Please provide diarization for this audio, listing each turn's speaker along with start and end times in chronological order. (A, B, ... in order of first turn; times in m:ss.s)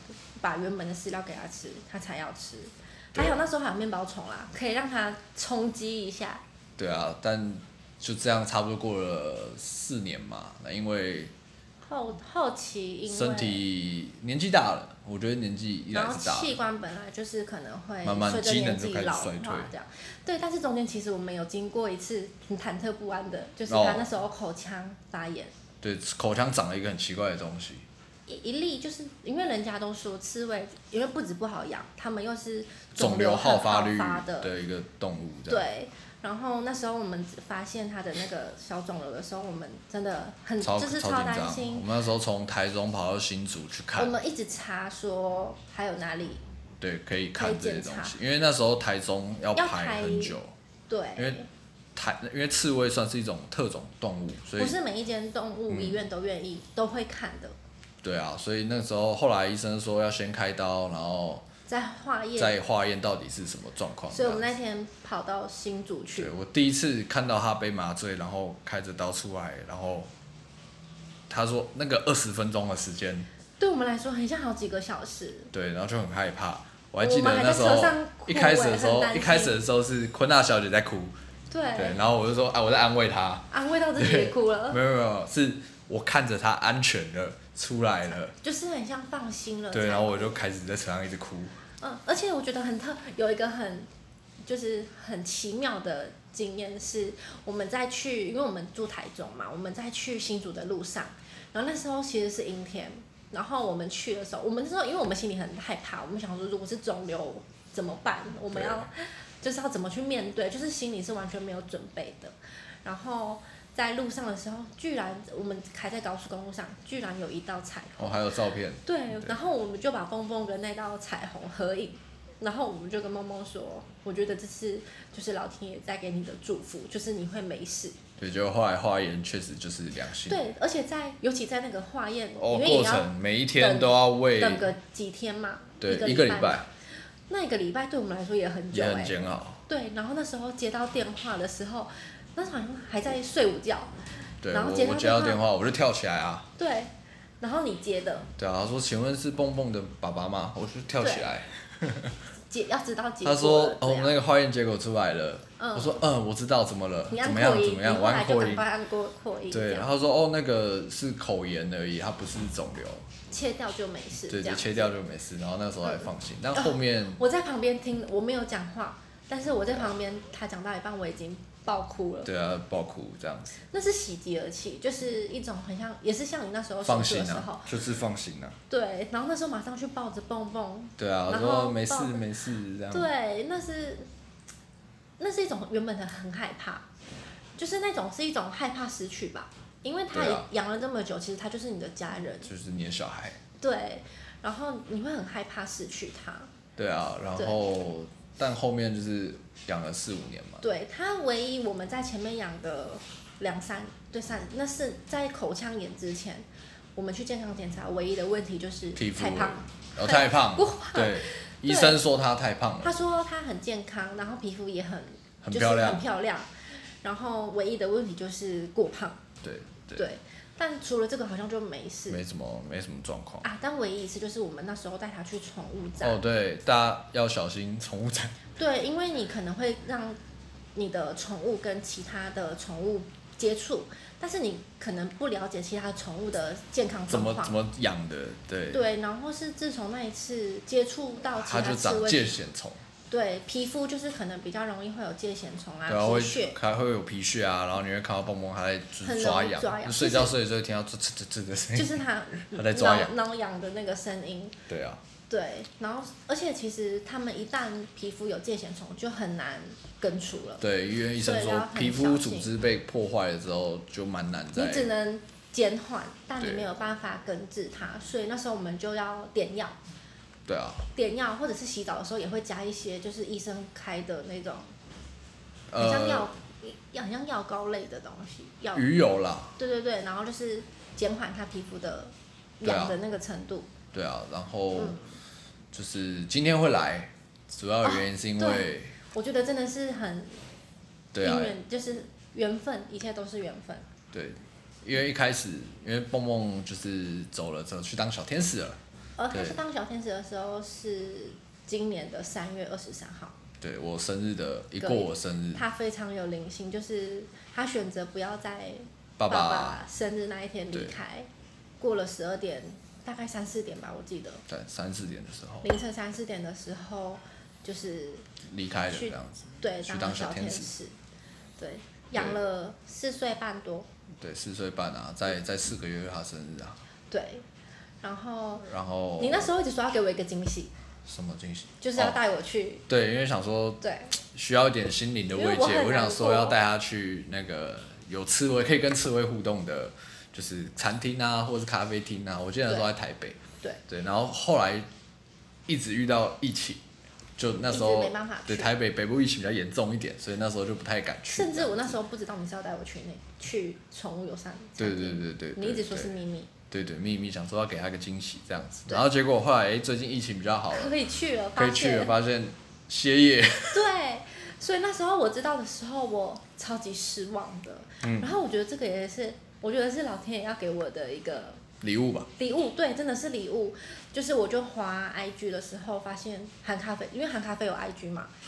0:00.4-0:06.4 A
0:06.8-0:11.3 B
0:11.8-0:13.7 A
0:13.1-0:16.6 B
0:15.9-0:25.5 A
0:18.0-0:19.7 B
0:23.7-0:24.1 B
0:25.8-0:27.8 B
0:28.3-0:34.5 A
0:33.0-0:35.6 B
0:35.5-0:41.9 A
0:40.6-0:44.1 B
0:44.0-0:46.4 A
0:46.8-0:50.5 B
0:47.4-0:48.2 A
0:49.6-0:50.4 A
0:50.9-0:51.5 A
0:52.0-0:54.7 B
0:54.6-0:57.6 A
0:55.7-0:56.0 B
0:58.0-1:01.4 B
1:01.7-1:02.6 A
1:02.4-1:04.5 B
1:04.1-1:06.3 A
1:06.2-1:10.1 B
1:11.3-1:13.3 B
1:13.6-1:15.5 A
1:15.5-1:21.1 B
1:17.0-1:19.6 A
1:21.5-1:22.0 A
1:21.8-1:28.3 B
1:23.5-1:24.8 A
1:28.4-1:30.4 A
1:29.7-1:31.6 B
1:31.8-1:33.9 A
1:34.4-1:58.2 A
1:48.5-1:48.9 B
1:58.0-1:59.3 B
1:58.8-2:08.0 A
2:08.2-2:10.4 B
2:10.3-2:16.7 A
2:12.4-2:14.7 B
2:15.8-2:16.7 B
2:17.3-2:23.9 A
2:18.7-2:19.6 B
2:24.4-2:26.5 B
2:24.5-2:25.4 A
2:26.6-2:28.3 A
2:28.4-2:32.1 B
2:31.0-2:31.3 A
2:32.5-2:34.2 A
2:33.2-2:38.6 B
2:35.6-2:36.0 A
2:37.1-2:39.9 A
2:39.5-2:43.1 B
2:43.3-2:44.9 A
2:44.3-2:47.2 B
2:45.8-2:52.3 A
2:52.2-2:53.6 B
2:53.7-2:57.7 A
2:56.8-2:58.6 B
2:58.7-3:02.2 A
3:01.0-3:03.1 B
3:02.9-3:04.1 A
3:05.2-3:06.9 A
3:07.6-3:12.5 A
3:10.1-3:10.5 B
3:12.4-3:13.4 B
3:13.6-3:16.5 A
3:16.8-3:20.6 B
3:17.4-3:17.6 A
3:20.6-3:32.0 A
3:29.0-3:33.0 B
3:32.8-3:36.5 A
3:35.4-3:36.0 B
3:37.0-3:39.2 A
3:39.4-3:40.0 B
3:40.0-3:42.2 A
3:42.1-3:43.5 B
3:43.4-3:46.2 A
3:46.0-3:48.4 B
3:48.6-3:50.2 A
3:50.8-3:57.6 A
3:57.1-3:58.8 B
3:58.7-4:02.4 A
4:01.3-4:02.8 B
4:03.1-4:06.6 A
4:05.9-4:13.1 B
4:09.0-4:10.3 A
4:11.8-4:14.6 A
4:14.7-4:15.0 B
4:15.3-4:20.6 A
4:20.6-4:24.9 B
4:21.2-4:22.5 A
4:24.6-4:29.8 A
4:26.4-4:26.7 B
4:30.5-4:30.8 B
4:30.9-4:34.7 A
4:35.7-4:36.3 B
4:35.8-4:38.9 A
4:38.7-4:39.6 B
4:39.6-4:43.7 A
4:42.6-4:43.0 B
4:43.9-4:45.0 B
4:44.8-4:45.1 A
4:45.7-4:49.0 B
4:47.8-4:50.4 A
4:51.1-4:51.6 B
4:51.2-4:53.9 A
4:54.1-4:58.8 B
4:59.2-5:03.4 A
4:59.3-4:59.6 B
5:03.6-5:05.7 B
5:04.8-5:11.3 A
5:09.2-5:09.8 B
5:11.8-5:14.4 A
5:14.5-5:15.7 B
5:15.6-5:18.3 A
5:18.5-5:20.7 B
5:18.9-5:21.0 A
5:21.6-5:23.9 A
5:24.2-5:26.8 B
5:27.1-5:27.4 A
5:28.0-5:30.7 A
5:28.7-5:29.5 B
5:31.1-5:32.2 B
5:31.8-5:32.8 A
5:32.9-5:44.9 B
5:33.8-5:34.2 A
5:35.3-5:36.6 A
5:45.7-5:46.8 B
5:47.4-5:52.0 B
5:47.7-5:48.7 A
5:51.3-5:56.5 A
5:54.8-5:56.1 B
5:56.7-6:01.0 B
6:00.7-6:02.2 A
6:01.6-6:03.9 B
6:03.7-6:11.6 A
6:08.0-6:08.3 B
6:11.8-6:12.3 B
6:12.4-6:18.3 A